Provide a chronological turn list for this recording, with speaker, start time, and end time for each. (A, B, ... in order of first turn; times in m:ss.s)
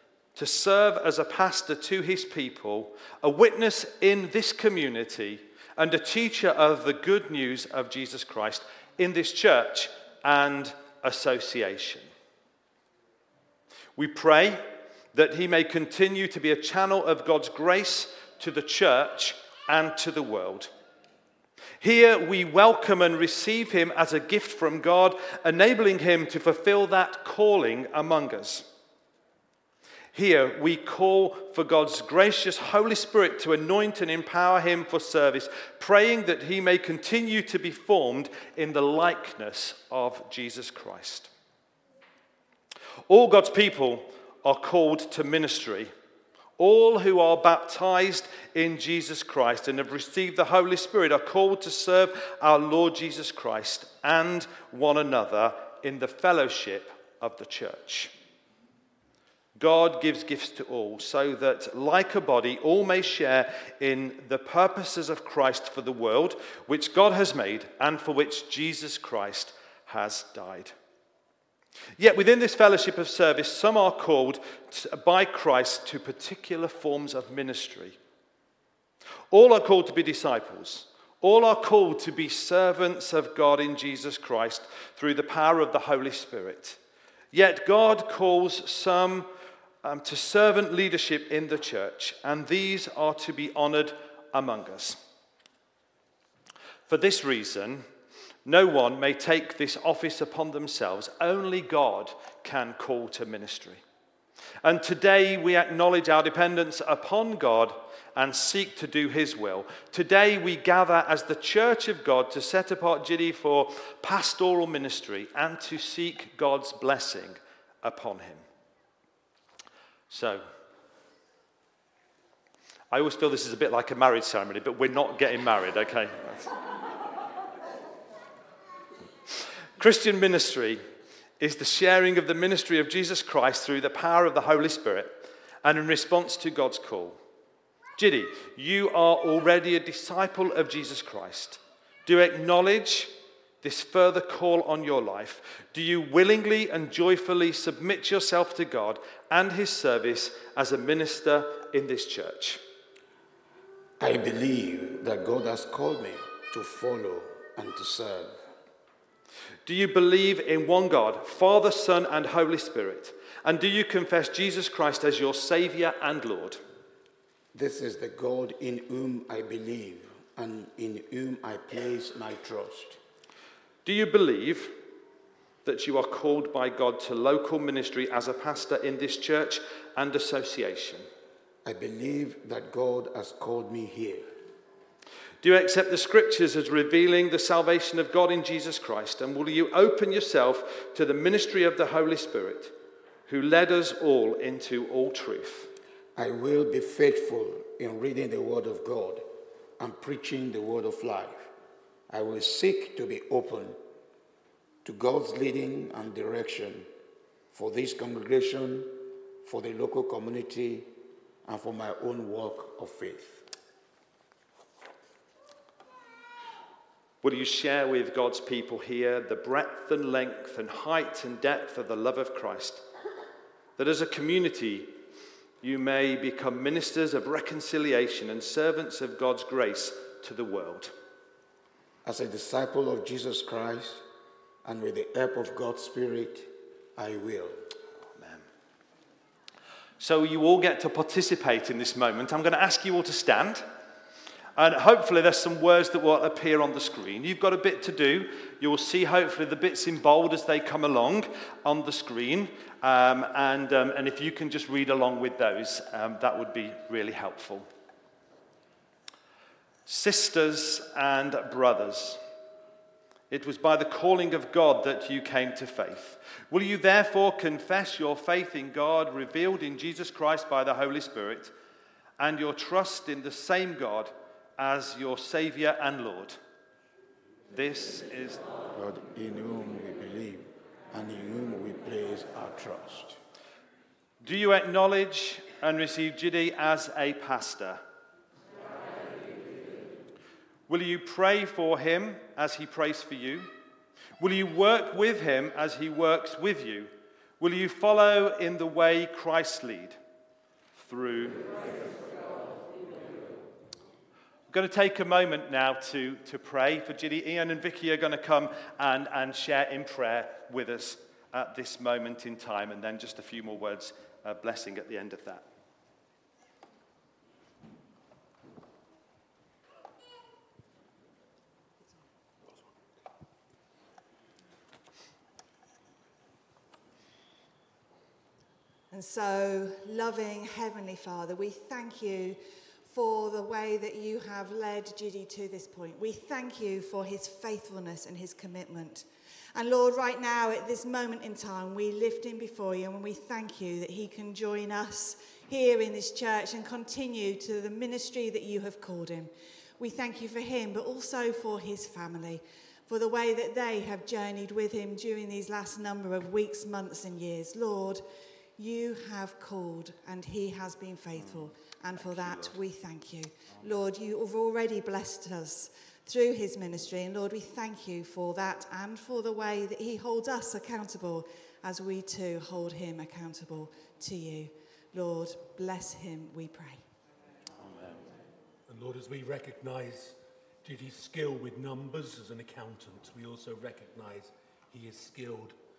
0:00.4-0:12.1 A
0:14.0-0:20.7 A
0:21.8-0:28.7 A
0:30.1-0:41.3 A
0:43.1-0:45.9 A
0:46.6-0:58.1 A
0:59.6-1:10.7 A
1:12.0-1:18.0 A
1:19.3-1:26.8 A
1:27.3-1:29.3 A
1:29.8-1:35.0 A
1:36.9-1:37.8 A
1:38.4-1:43.8 A
1:44.6-1:58.4 A
2:00.1-2:00.5 A
2:02.9-2:06.6 A
2:09.8-2:10.8 A
2:11.4-2:17.2 A
2:18.0-2:32.6 A
2:34.0-2:38.4 B
2:39.6-2:46.6 A
2:47.5-2:53.0 B
2:53.8-2:54.8 A
2:55.6-3:01.0 A
3:01.6-3:04.3 B
3:05.4-3:12.7 A
3:13.3-3:15.7 A
3:16.2-3:19.3 B
3:19.8-3:21.5 B
3:22.1-3:23.8 B
3:24.8-3:26.9 B
3:27.5-3:30.9 B
3:31.5-3:33.4 B
3:37.2-3:42.8 A
3:43.8-3:44.9 A
3:45.6-3:50.9 A
3:52.0-3:54.0 B
3:54.6-3:57.6 B
3:58.1-3:58.4 A
4:00.0-4:03.7 A
4:04.6-4:17.7 A
4:19.9-4:22.2 A
4:23.3-4:31.5 A
4:32.2-4:36.4 A
4:37.5-4:38.4 A
4:38.7-4:43.2 B
4:44.2-4:47.8 A
4:50.7-4:53.5 A
4:54.2-5:00.0 A
5:00.8-5:01.5 A
5:04.5-5:15.5 A
5:28.9-5:58.1 C
5:58.6-6:16.8 C
6:02.0-6:02.6 A
6:17.6-6:18.0 A
6:18.7-6:25.6 D